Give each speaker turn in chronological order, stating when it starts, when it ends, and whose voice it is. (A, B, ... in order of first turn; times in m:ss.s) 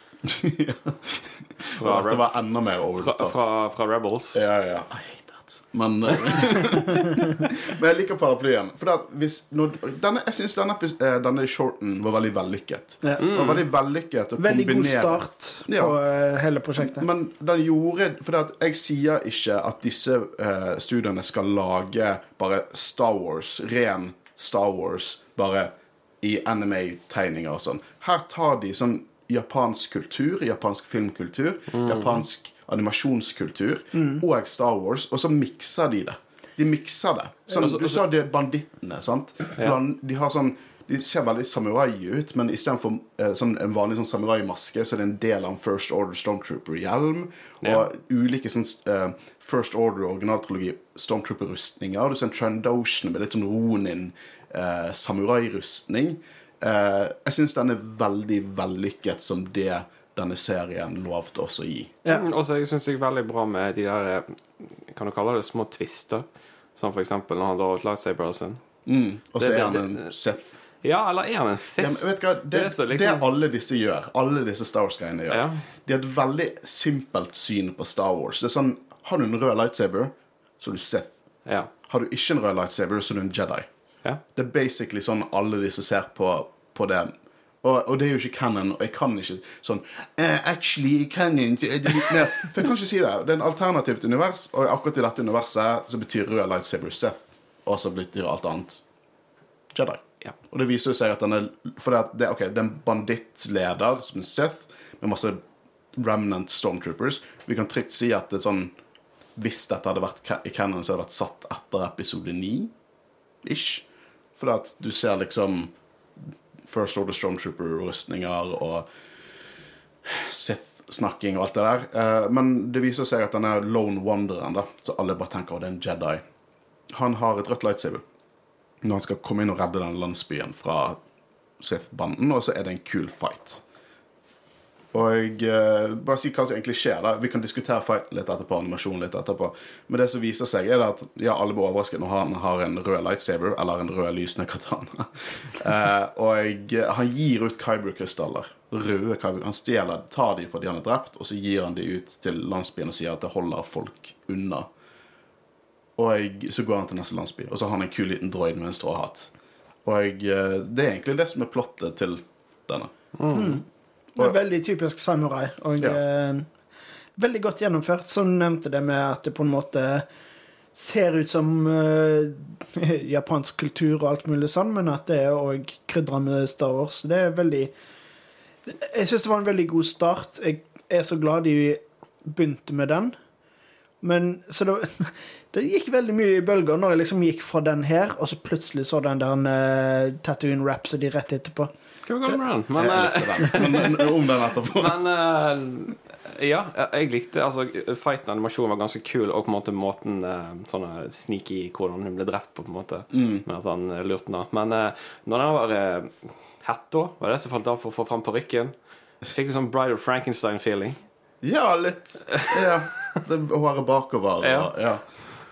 0:00.2-0:03.4 A
0:01.8-0:02.4 B
0:02.9-0:04.4 B
0:04.3-0:16.0 A
0:13.2-0:13.6 B
0:14.4-0:17.1 C
0:16.8-1:02.0 A
0:31.7-0:32.2 B
0:34.0-0:34.2 C
0:37.5-0:38.0 B
1:02.1-1:06.2 B
1:06.8-1:08.6 B
1:08.9-1:10.5 A
1:09.4-1:10.1 B
1:10.8-1:13.3 B
1:11.8-1:21.1 A
1:15.3-1:15.6 B
1:21.9-1:23.7 A
1:24.3-1:38.8 A
1:39.7-1:45.4 A
1:46.0-1:48.7 A
1:49.4-1:52.7 A
1:53.4-1:53.8 A
1:54.4-1:55.7 A
1:56.7-1:58.9 A
2:00.0-2:06.2 A
2:06.9-2:08.0 A
2:08.8-2:11.0 A
2:11.6-2:13.6 A
2:14.9-2:34.7 A
2:36.0-2:39.3 A
2:39.8-2:42.9 A
2:43.2-2:43.6 B
2:43.3-2:43.6 C
2:44.2-2:46.5 C
2:47.2-2:50.1 C
2:50.7-2:57.7 C
2:58.7-3:03.2 C
3:04.0-3:11.7 C
3:12.1-3:31.0 B
3:12.8-3:15.0 A
3:23.1-3:23.4 A
3:31.4-3:35.0 A
3:32.3-3:32.6 B
3:34.4-3:34.7 B